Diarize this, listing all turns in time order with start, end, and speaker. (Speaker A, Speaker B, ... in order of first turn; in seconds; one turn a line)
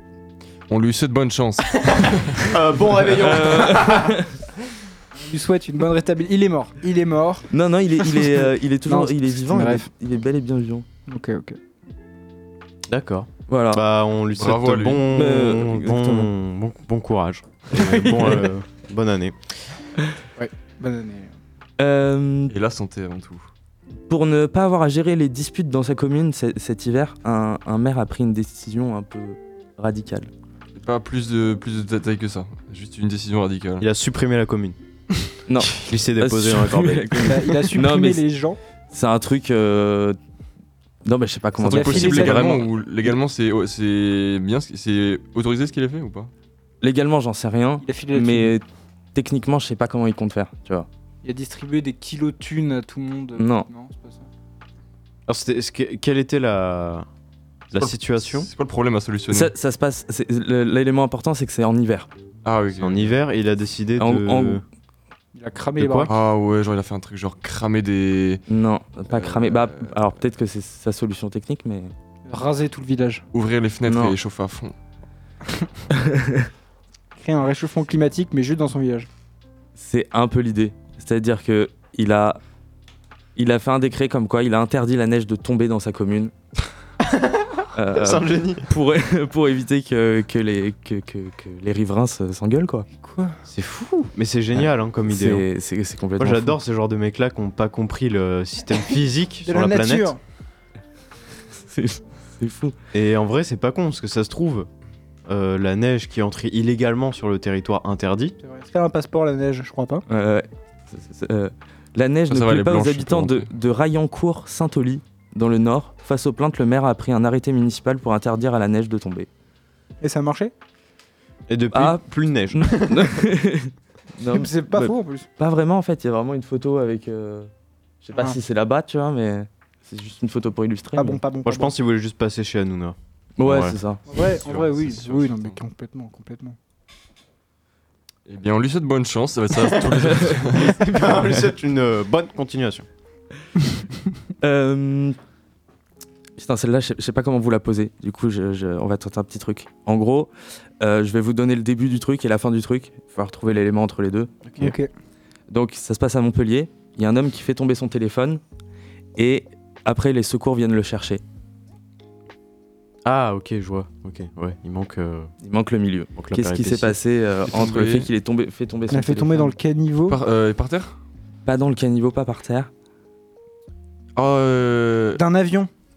Speaker A: 0.7-2.5
Speaker B: 2.4-4.1
Speaker C: 3.1-4.3
Speaker D: 5.1-7.5
Speaker C: 7.5-10.8
Speaker D: 8.1-9.9
Speaker D: 11.1-11.6
Speaker B: 12.9-19.4
Speaker C: 13.5-13.8
Speaker A: 14.3-15.1
Speaker C: 15.1-16.3
Speaker D: 17.7-18.5
Speaker D: 20.4-21.3
Speaker C: 21.8-22.5
Speaker A: 22.5-23.5
Speaker C: 24.1-30.3
Speaker A: 30.8-33.9
Speaker B: 33.8-34.8
Speaker C: 35.5-38.2
Speaker B: 35.7-37.5
Speaker D: 37.2-38.6
Speaker C: 38.9-40.2
Speaker C: 41.0-42.5
Speaker A: 41.6-46.3
Speaker D: 41.6-42.7
Speaker C: 46.8-50.9
Speaker D: 47.8-48.5
Speaker D: 51.2-54.2
Speaker C: 53.4-53.6
Speaker B: 55.3-57.1
Speaker B: 57.7-58.5
Speaker A: 57.7-59.5
Speaker C: 59.3-62.1
Speaker A: 62.4-63.1
Speaker B: 62.8-64.6
Speaker C: 64.0-64.6
Speaker D: 65.3-66.1
Speaker B: 65.8-66.1
Speaker A: 66.1-68.4
Speaker C: 68.5-71.9
Speaker A: 69.1-70.0
Speaker D: 72.2-73.2
Speaker A: 73.3-74.7
Speaker C: 73.8-74.2
Speaker C: 75.9-76.5
Speaker D: 77.2-79.1
Speaker C: 79.8-82.4
Speaker C: 83.3-86.3
Speaker B: 87.0-88.7
Speaker C: 87.7-92.9
Speaker D: 93.0-93.4
Speaker B: 93.5-95.5
Speaker C: 95.1-96.6
Speaker B: 96.2-100.1
Speaker D: 99.5-100.2
Speaker C: 101.6-102.7
Speaker B: 102.9-104.7
Speaker B: 105.2-108.3
Speaker D: 108.4-110.0
Speaker C: 110.1-119.3
Speaker A: 112.3-113.5
Speaker D: 120.0-120.5
Speaker B: 121.5-123.3
Speaker C: 121.7-127.5
Speaker D: 124.2-125.3
Speaker C: 128.0-131.2
Speaker D: 130.9-131.7
Speaker B: 131.4-133.8
Speaker C: 133.4-134.0
Speaker D: 134.1-136.6
Speaker A: 134.2-135.6
Speaker A: 138.3-140.8
Speaker B: 140.5-142.8
Speaker C: 144.4-145.2
Speaker C: 146.4-154.3
Speaker B: 154.4-154.7
Speaker D: 154.6-154.9
Speaker C: 155.5-158.4
Speaker C: 159.2-161.2
Speaker B: 163.0-165.3
Speaker C: 165.4-169.5
Speaker B: 166.2-167.0
Speaker A: 167.4-168.1
Speaker D: 168.9-170.2
Speaker A: 170.1-171.0
Speaker C: 171.4-172.7
Speaker A: 174.2-175.2
Speaker D: 175.2-175.7